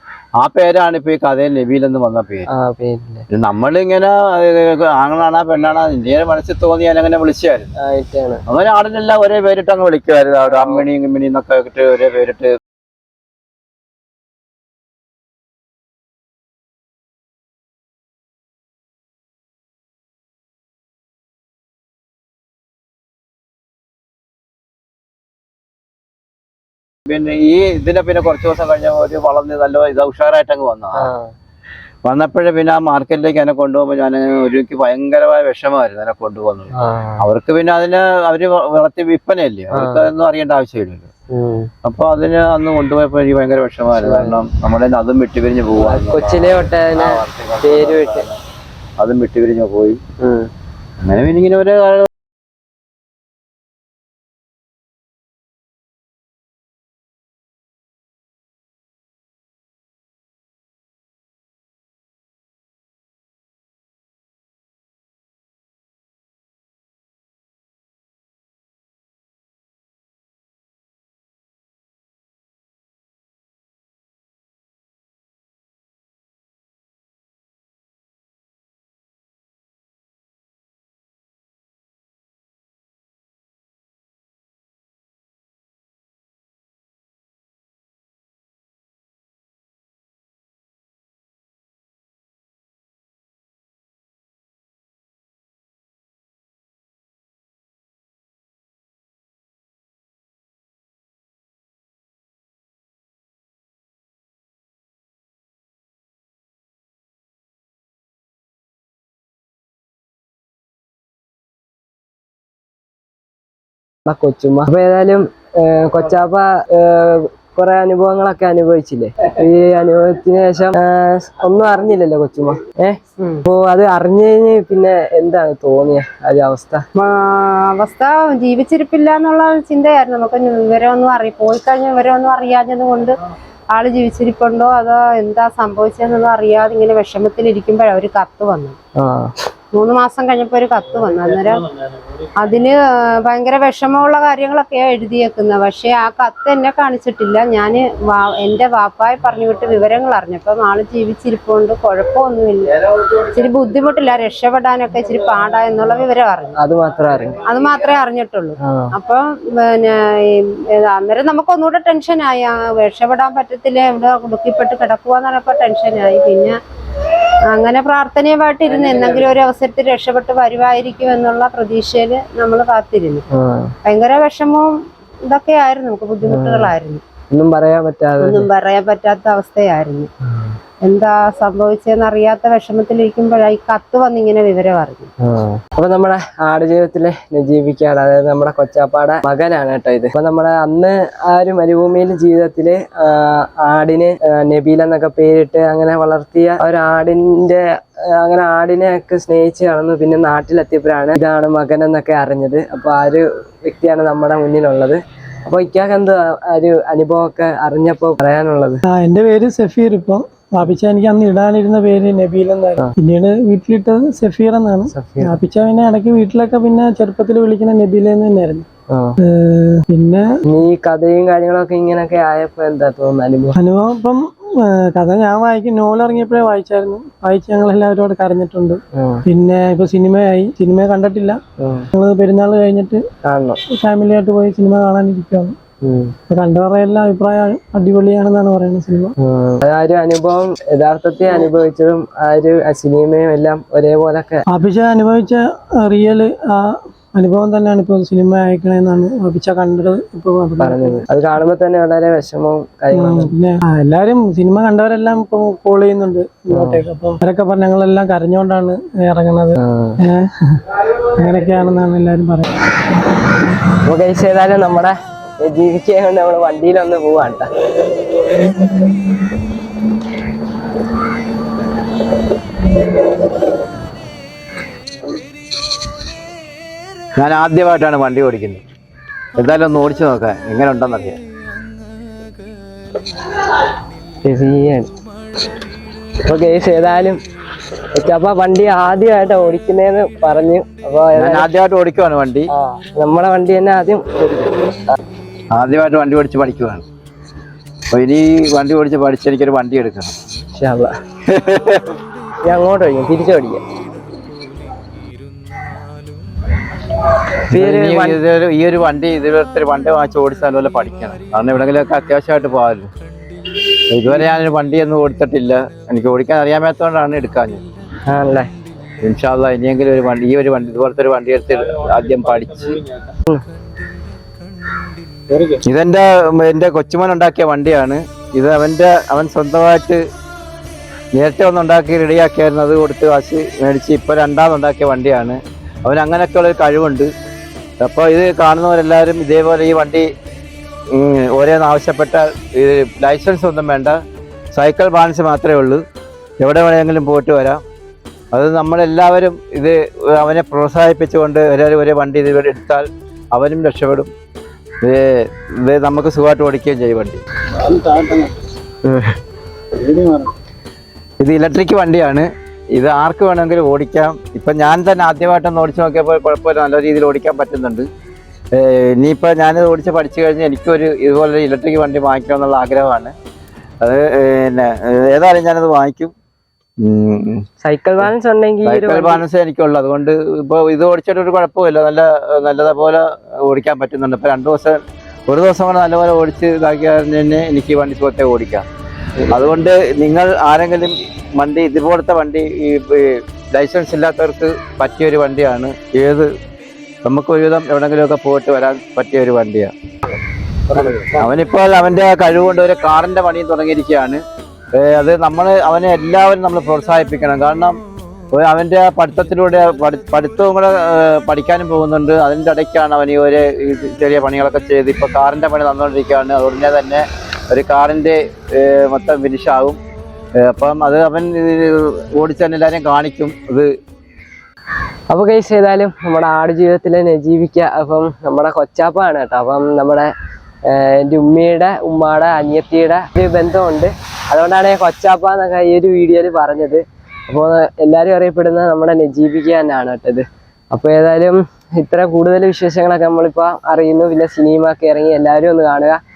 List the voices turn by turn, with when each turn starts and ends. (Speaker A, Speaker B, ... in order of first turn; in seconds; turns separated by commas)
Speaker A: 0.4-2.5, Speaker B: 2.5-3.2, Speaker A: 3.3-7.7, Speaker B: 7.8-8.4, Speaker A: 8.5-12.6, Speaker B: 10.5-10.8, Speaker A: 27.1-31.1, Speaker B: 30.9-31.3, Speaker A: 32.0-41.1, Speaker B: 36.7-37.2, Speaker B: 39.7-40.1, Speaker B: 41.3-41.7, Speaker A: 41.8-48.4, Speaker B: 43.9-44.4, Speaker B: 45.8-48.3, Speaker A: 49.0-50.0, Speaker B: 50.2-50.5, Speaker A: 51.0-52.1, Speaker B: 114.0-126.8, Speaker C: 123.2-123.4, Speaker C: 127.0-133.2, Speaker C: 133.7-138.8, Speaker B: 139.0-139.3, Speaker C: 139.7-141.7, Speaker C: 142.3-156.6, Speaker B: 156.6-157.4, Speaker C: 157.4-166.6, Speaker B: 158.6-158.9, Speaker C: 167.5-173.2, Speaker B: 173.3-173.7, Speaker C: 173.8-177.0, Speaker B: 176.2-176.7, Speaker B: 177.3-178.5, Speaker C: 178.2-180.1, Speaker B: 180.3-180.5, Speaker C: 180.8-185.1, Speaker B: 185.2-208.8, Speaker D: 208.9-218.7, Speaker B: 214.9-215.4, Speaker B: 218.9-219.2, Speaker D: 219.2-220.4, Speaker B: 220.4-223.6, Speaker D: 223.6-231.4, Speaker B: 228.9-229.2, Speaker B: 231.6-231.9, Speaker D: 231.9-233.0, Speaker B: 233.2-233.6, Speaker D: 233.7-235.6, Speaker B: 235.8-236.1, Speaker D: 236.3-239.1, Speaker B: 239.2-244.4, Speaker D: 244.5-251.1, Speaker B: 250.6-253.3, Speaker D: 252.9-262.5, Speaker B: 256.5-256.8, Speaker B: 259.6-260.0, Speaker B: 263.7-267.5, Speaker A: 277.1-278.6, Speaker A: 279.4-281.2, Speaker B: 284.2-284.9, Speaker B: 286.2-287.2, Speaker B: 287.9-291.5, Speaker A: 291.1-292.5, Speaker B: 292.5-294.6, Speaker A: 295.5-296.8, Speaker A: 297.9-300.1, Speaker B: 300.6-300.9, Speaker A: 301.2-302.0, Speaker B: 302.4-303.6, Speaker B: 307.5-308.2, Speaker A: 307.5-312.9, Speaker A: 313.9-317.6, Speaker B: 318.1-318.5, Speaker A: 319.0-322.9, Speaker A: 325.5-330.0, Speaker A: 331.1-337.1, Speaker A: 337.8-340.1, Speaker A: 340.9-344.0, Speaker A: 344.5-345.8, Speaker A: 346.4-347.6, Speaker A: 348.3-354.1, Speaker A: 354.8-357.2, Speaker A: 358.8-359.1, Speaker A: 361.2-367.9, Speaker A: 368.5-373.1, Speaker A: 373.8-376.1, Speaker A: 376.8-377.4, Speaker B: 377.6-379.2, Speaker A: 378.6-388.6, Speaker A: 389.3-396.3, Speaker A: 397.0-399.7, Speaker B: 400.7-401.1, Speaker A: 400.8-404.2, Speaker A: 404.7-407.8, Speaker A: 408.3-419.8, Speaker A: 420.4-423.7, Speaker B: 425.1-430.1, Speaker B: 430.6-446.0